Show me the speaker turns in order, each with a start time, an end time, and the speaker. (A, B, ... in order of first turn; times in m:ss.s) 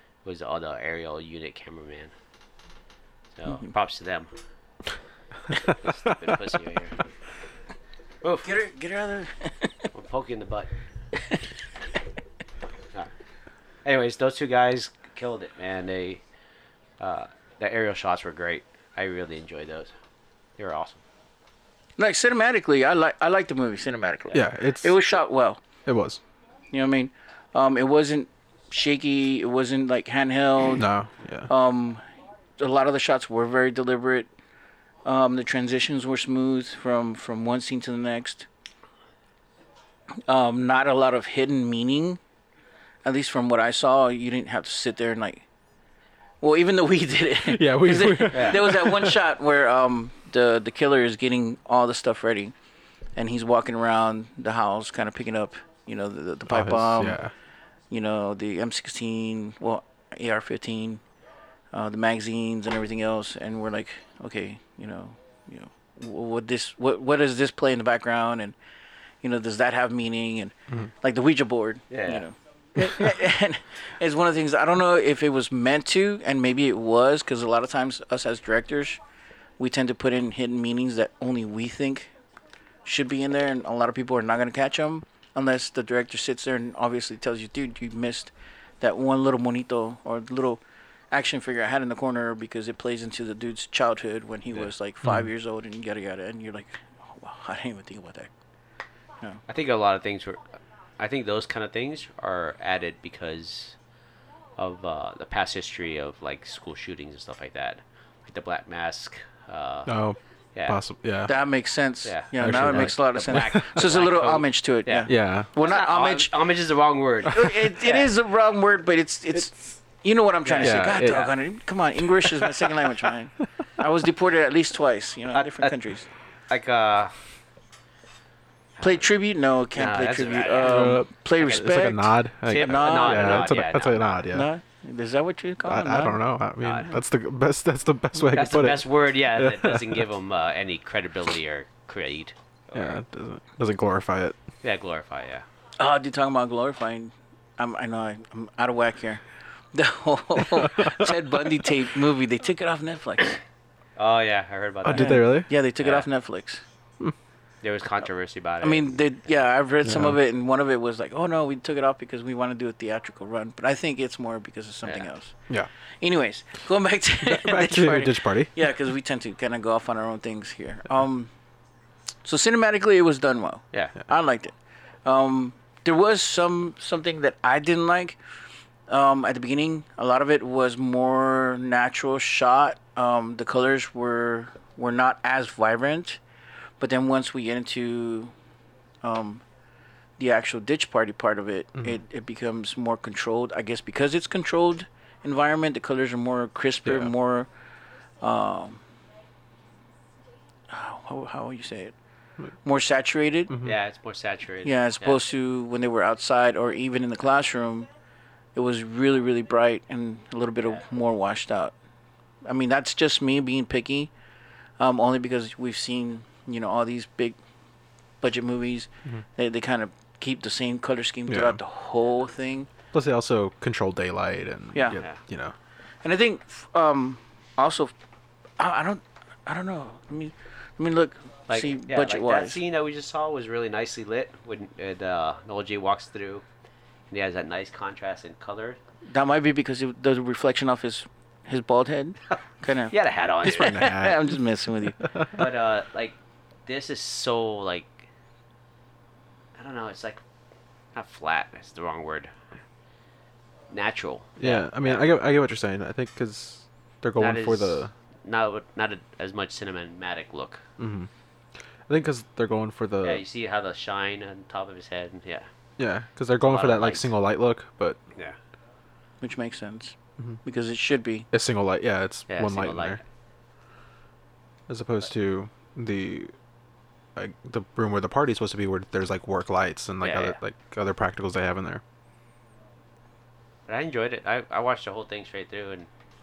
0:00.2-0:02.1 A
0:03.4-0:04.3 A
0:05.6-0:07.0 A
0:08.2-0:08.5 A
0:08.4-0:09.9 B
0:09.9-0:10.7 A
0:13.8-0:16.2 A
0:17.0-0:19.9 A
0:20.6-0:21.0 A
0:22.0-0:25.6 B
0:24.3-0:25.0 C
0:25.8-0:26.2 C
0:26.7-0:30.8 B
0:30.8-0:31.5 C
0:31.5-0:32.0 B
0:32.6-0:34.3 B
0:35.0-0:38.5 B
0:40.3-0:42.2 B
0:43.0-0:45.4 B
0:46.4-0:52.5 B
0:47.4-0:49.2 C
0:48.3-0:48.6 A
0:53.2-0:57.2 B
0:56.5-0:57.3 C
0:57.9-1:01.0 B
1:01.7-1:08.6 B
1:09.2-1:19.0 B
1:11.9-1:12.2 A
1:19.6-1:22.1 B
1:22.8-1:30.6 B
1:31.1-1:38.3 B
1:39.5-1:40.4 A
1:41.0-1:43.8 A
1:44.6-1:49.9 A
1:49.8-1:51.3 C
1:50.5-1:50.8 A
1:51.2-1:56.3 B
1:52.0-1:58.1 A
1:52.4-1:53.6 C
1:55.1-1:55.5 C
1:57.3-2:06.1 B
2:00.4-2:01.3 A
2:00.6-2:01.3 C
2:02.2-2:03.1 C
2:05.3-2:05.7 A
2:06.5-2:07.1 A
2:08.8-2:13.5 B
2:09.8-2:11.7 A
2:10.6-2:14.5 C
2:12.5-2:14.0 A
2:14.3-2:16.2 B
2:15.6-2:20.0 C
2:16.6-2:16.9 A
2:18.2-2:23.0 A
2:22.7-2:24.4 C
2:24.6-2:25.4 A
2:25.8-2:29.2 B
2:29.7-2:33.4 B
2:34.0-2:35.3 A
2:34.8-2:35.5 C
2:34.9-2:36.6 B
2:35.8-2:36.1 A
2:37.6-2:38.9 A
2:38.6-2:45.3 B
2:39.8-2:40.2 C
2:46.0-2:51.3 B
2:47.2-2:48.6 C
2:52.2-2:54.5 B
2:55.0-2:58.2 B
2:58.9-3:06.2 B
3:06.8-3:08.3 B
3:09.0-3:09.4 B
3:10.2-3:17.5 B
3:18.2-3:18.8 B
3:20.7-3:21.9 B
3:22.6-3:23.5 B
3:23.5-3:23.8 C
3:23.6-3:25.2 A
3:24.6-3:27.9 B
3:28.5-3:31.7 B
3:32.4-3:34.1 B
3:34.8-3:37.4 B
3:38.2-3:42.7 B
3:41.3-3:41.6 C
3:42.9-3:45.5 C
3:44.7-3:45.0 B
3:46.0-3:47.9 B
3:48.6-3:52.6 B
3:51.5-3:56.4 A
3:57.1-3:58.8 A
3:59.1-4:05.0 B
4:02.9-4:03.8 A
4:03.5-4:04.4 C
4:05.3-4:08.0 A
4:09.5-4:10.2 A
4:10.9-4:12.3 A
4:13.7-4:15.1 A
4:14.4-4:17.9 C
4:17.2-4:20.6 A
4:20.8-4:21.1 C
4:21.9-4:23.2 C
4:23.0-4:25.5 A
4:25.8-4:28.0 C
4:26.4-4:27.1 A
4:29.2-4:31.3 B
4:31.3-4:33.0 C
4:32.3-4:33.0 A
4:34.7-4:36.3 C
4:37.2-4:41.8 C
4:40.0-4:40.4 A
4:43.7-4:45.9 A